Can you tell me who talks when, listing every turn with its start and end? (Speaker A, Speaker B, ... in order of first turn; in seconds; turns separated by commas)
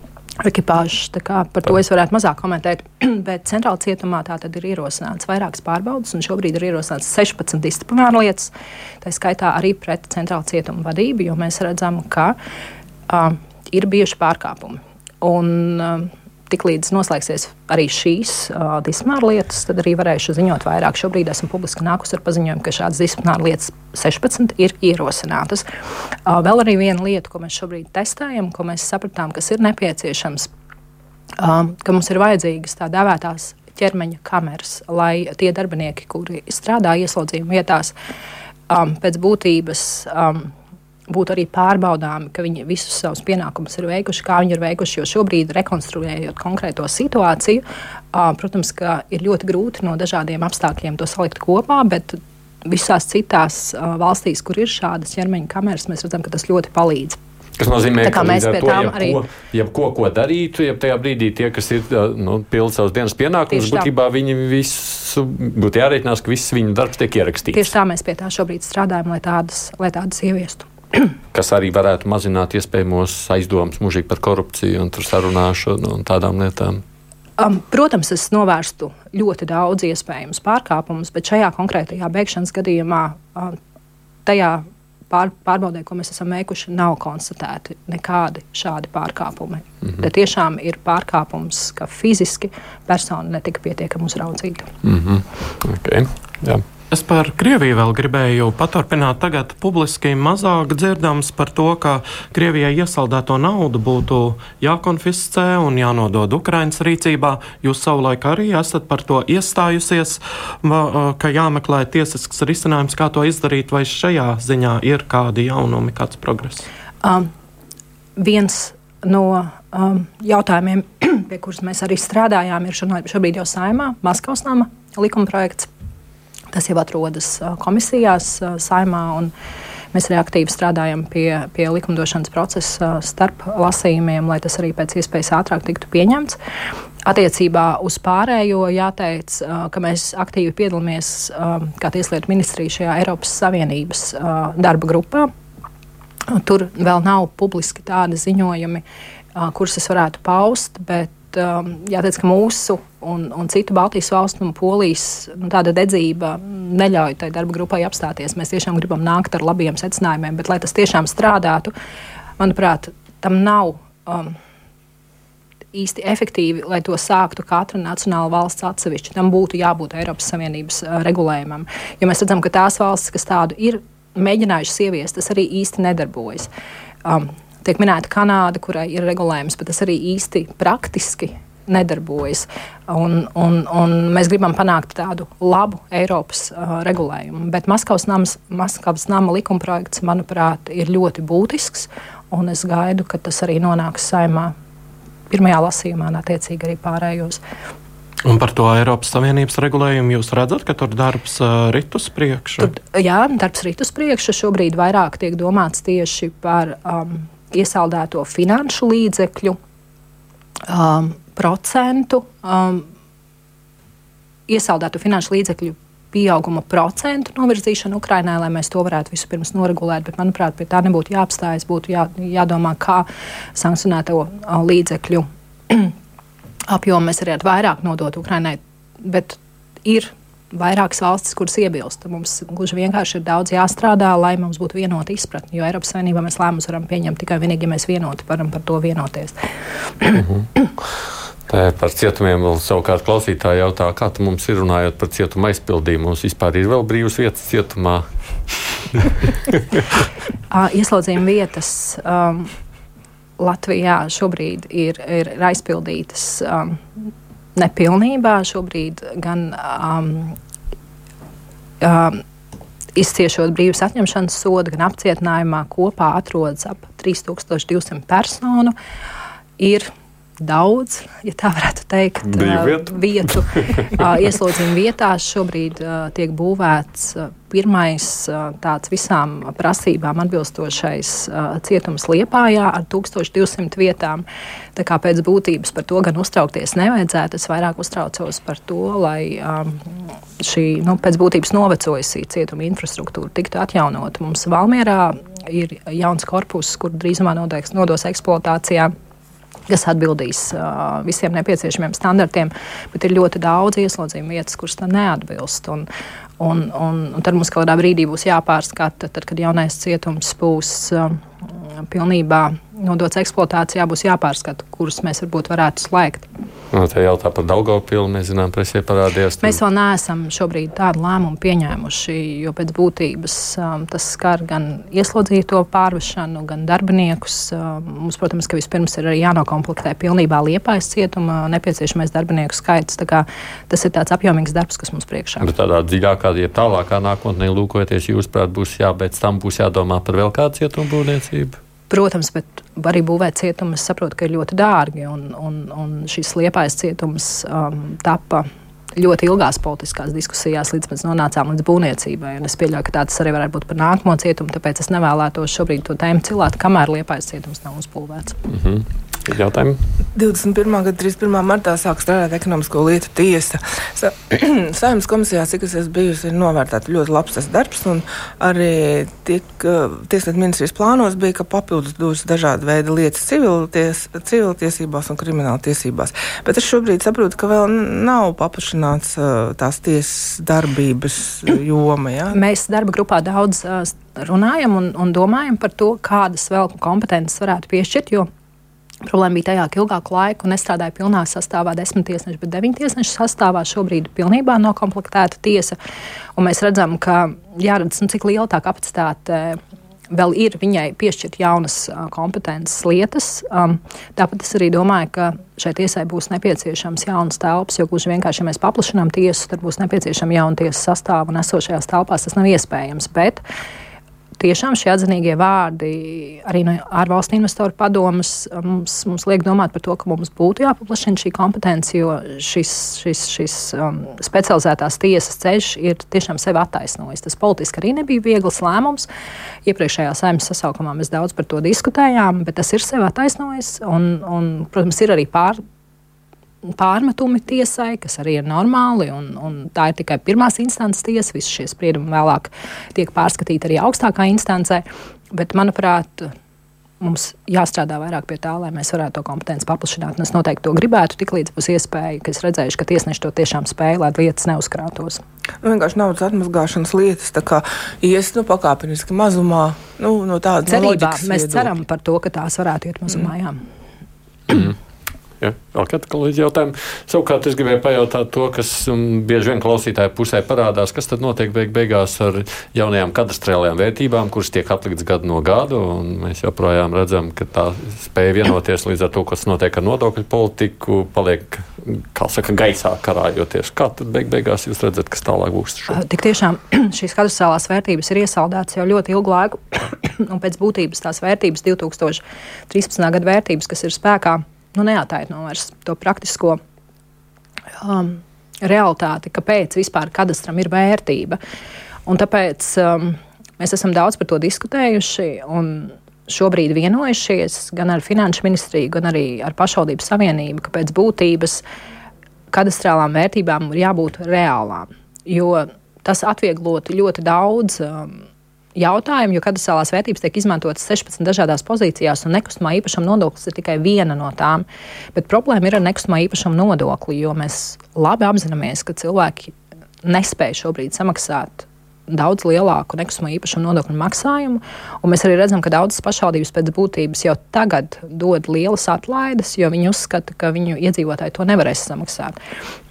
Speaker A: 0.4-12.3, Speaker A: 13.1-25.6, Speaker A: 26.3-30.5, Speaker A: 31.4-37.9, Speaker A: 38.7-40.5, Speaker A: 41.1-47.6, Speaker A: 48.1-57.2, Speaker B: 57.6-67.7, Speaker A: 58.0-59.2, Speaker A: 63.5-63.9, Speaker A: 67.5-71.1, Speaker B: 71.3-76.8, Speaker A: 77.4-83.6, Speaker A: 84.3-94.7, Speaker B: 94.8-96.6, Speaker C: 96.9-116.6, Speaker A: 117.0-117.3, Speaker A: 118.2-125.7, Speaker A: 126.5-129.3, Speaker A: 129.9-136.4, Speaker A: 137.1-145.3, Speaker A: 146.3-148.8, Speaker A: 149.3-161.7, Speaker A: 162.4-164.4, Speaker A: 165.7-176.5, Speaker A: 177.1-194.5, Speaker A: 195.3-197.4, Speaker C: 198.2-202.7, Speaker A: 202.6-209.6, Speaker A: 210.7-212.9, Speaker A: 214.5-225.9, Speaker A: 226.7-239.3, Speaker B: 240.2-240.7, Speaker B: 241.5-248.1, Speaker A: 250.5-252.5, Speaker A: 253.4-260.4, Speaker A: 261.8-262.2, Speaker A: 262.9-268.8, Speaker A: 269.6-284.2, Speaker B: 272.2-273.9, Speaker A: 284.8-298.9, Speaker A: 299.7-305.9, Speaker A: 306.4-311.2, Speaker A: 311.9-316.3, Speaker B: 316.7-319.6, Speaker A: 319.4-335.5, Speaker B: 335.4-341.6, Speaker A: 341.9-358.4, Speaker B: 358.5-359.8, Speaker D: 360.1-382.4, Speaker A: 382.3-388.3, Speaker A: 389.0-395.8, Speaker A: 396.4-399.6, Speaker A: 400.1-413.4, Speaker A: 414.4-429.1, Speaker A: 429.7-435.6, Speaker A: 436.8-446.3, Speaker A: 447.0-455.2, Speaker D: 455.6-461.7, Speaker A: 460.7-463.6, Speaker B: 464.5-464.8, Speaker B: 465.4-486.0, Speaker A: 485.9-496.6, Speaker A: 497.8-501.4, Speaker A: 502.1-511.6, Speaker A: 512.5-542.4